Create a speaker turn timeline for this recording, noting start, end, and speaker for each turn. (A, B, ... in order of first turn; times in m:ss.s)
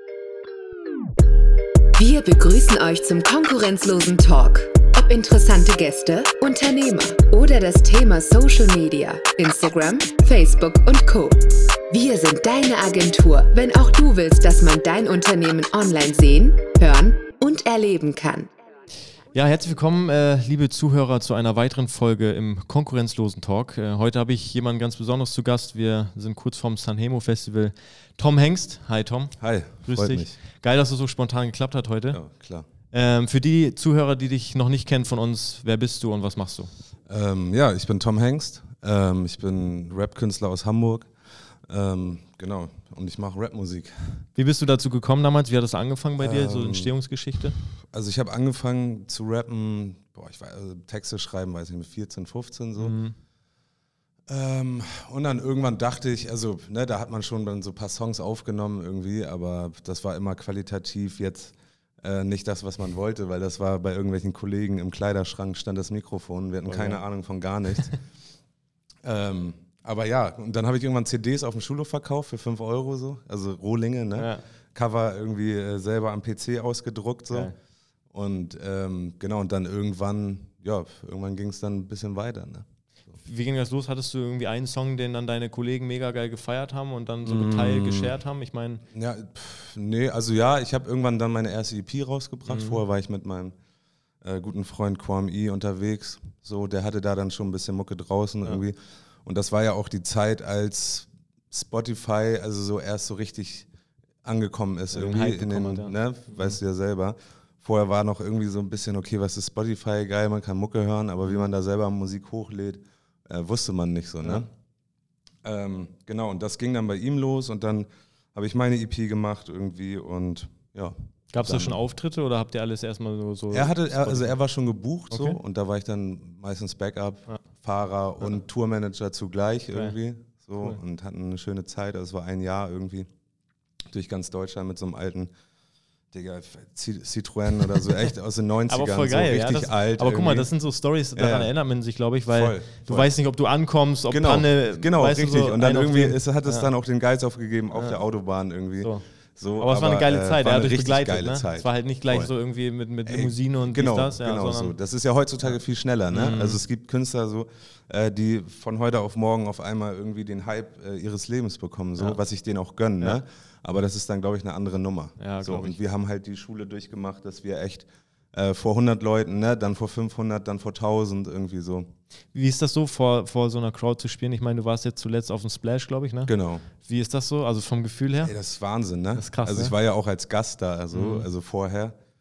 0:02.0-0:18.5 A
0:19.3-0:32.2 B
0:29.4-0:30.4 C
0:32.1-0:32.7 C
0:32.9-0:36.7 B
0:37.1-0:41.1 C
0:41.7-0:44.2 C
0:44.4-0:47.6 B
0:46.2-0:46.9 C
0:47.9-0:53.0 C
0:52.8-0:53.2 B
0:54.3-1:08.0 C
1:06.6-1:07.0 B
1:09.0-1:17.5 C
1:14.2-1:14.4 B
1:18.1-1:23.2 C
1:23.2-1:28.8 B
1:27.2-1:28.2 C
1:28.9-1:33.5 C
1:32.5-1:32.8 B
1:34.2-1:43.7 C
1:44.2-1:54.5 C
1:44.9-1:46.6 B
1:55.4-2:01.8 C
2:01.3-2:04.4 B
2:03.5-2:13.1 C
2:05.1-2:05.4 B
2:09.7-2:10.0 B
2:13.9-2:15.3 C
2:16.1-2:20.5 C
2:18.7-2:26.7 B
2:21.2-2:21.5 C
2:22.3-2:23.1 C
2:24.1-2:32.3 C
2:27.7-2:28.0 B
2:28.8-2:29.0 B
2:29.6-2:34.8 B
2:33.1-2:51.9 C
2:36.1-2:36.6 B
2:42.0-2:42.2 B
2:45.2-2:45.8 B
2:52.3-2:58.3 B
2:56.3-2:56.7 C
2:58.2-3:01.9 C
2:59.1-2:59.7 B
3:00.9-3:01.3 B